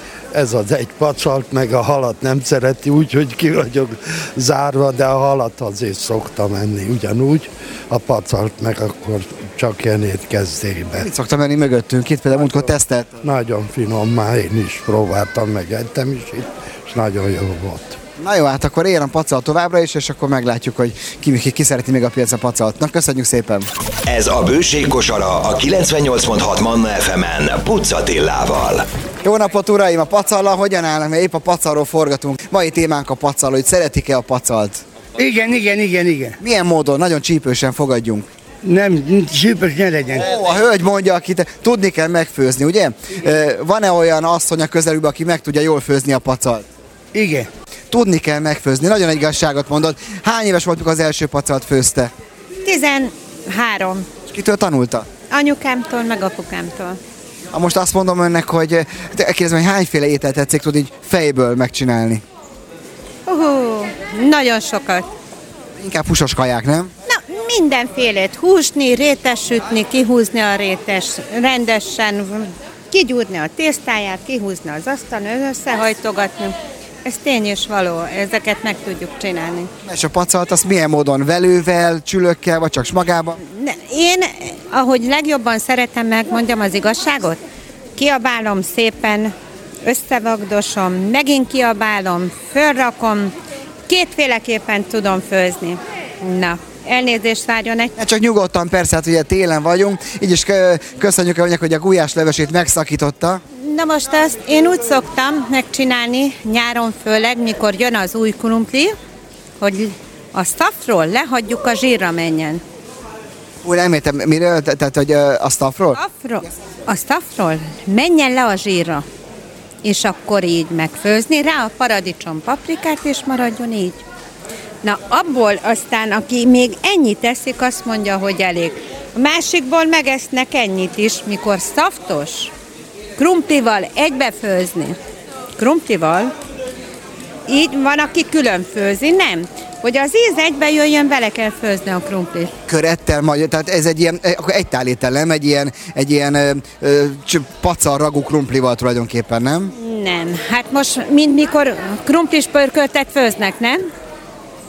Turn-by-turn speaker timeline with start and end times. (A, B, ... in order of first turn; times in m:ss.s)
0:00.3-0:11.1 A
0:11.0-0:13.2 B
0:13.2-0:18.0 A
0:18.2-0:23.7 B
0:24.1-0:28.9 C
0:29.2-0:34.8 B
0:35.2-0:36.4 D
0:36.4-0:38.3 B
0:38.6-0:40.3 D
0:40.2-0:46.6 B
0:47.1-0:47.5 D
0:47.9-0:52.1 B
0:52.6-0:54.1 E
0:54.3-0:55.1 B
0:55.3-0:57.0 E
0:57.5-1:02.2 B
1:03.3-1:05.1 E
1:05.8-1:06.9 B
1:07.1-1:19.7 E
1:19.8-1:23.4 B
1:23.4-1:27.4 E
1:28.0-1:29.3 E
1:29.8-1:33.3 E
1:33.9-1:37.9 E
1:38.0-1:43.4 B
1:43.6-1:48.9 E
1:49.6-1:52.6 E
1:53.6-1:56.0 B
1:56.0-1:59.0 E
1:59.8-2:04.0 E
2:04.8-2:12.5 E
2:13.2-2:15.0 E
2:15.6-2:16.3 E
2:17.5-2:22.5 E
2:22.7-2:29.7 B
2:29.7-2:33.8 E